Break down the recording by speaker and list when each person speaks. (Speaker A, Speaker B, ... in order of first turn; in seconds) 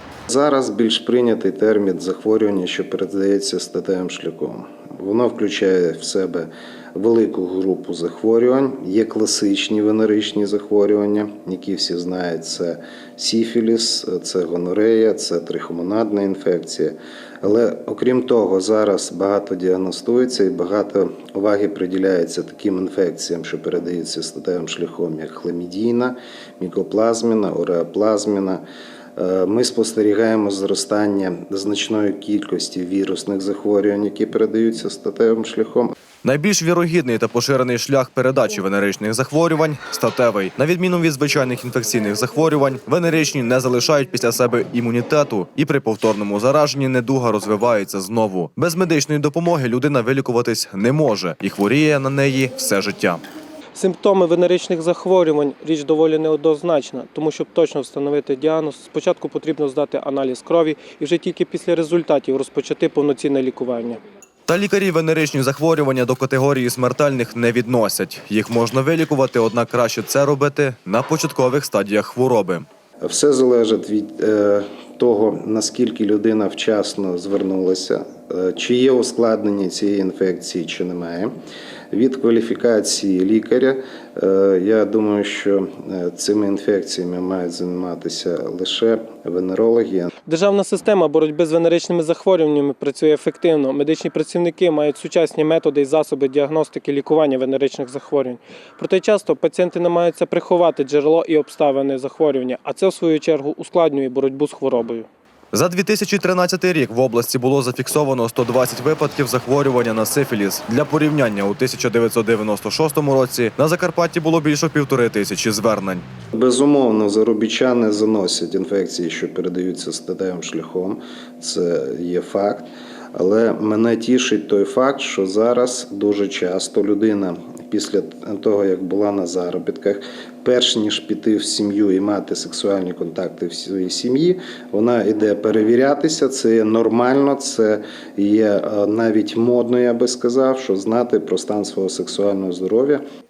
Speaker A: 0.3-28.6, 29.2-35.9, 73.0-81.3, 81.9-90.1, 116.4-143.0
Speaker B: 36.2-53.2, 64.5-72.7, 105.5-116.0
Speaker C: 53.8-64.0, 90.3-105.1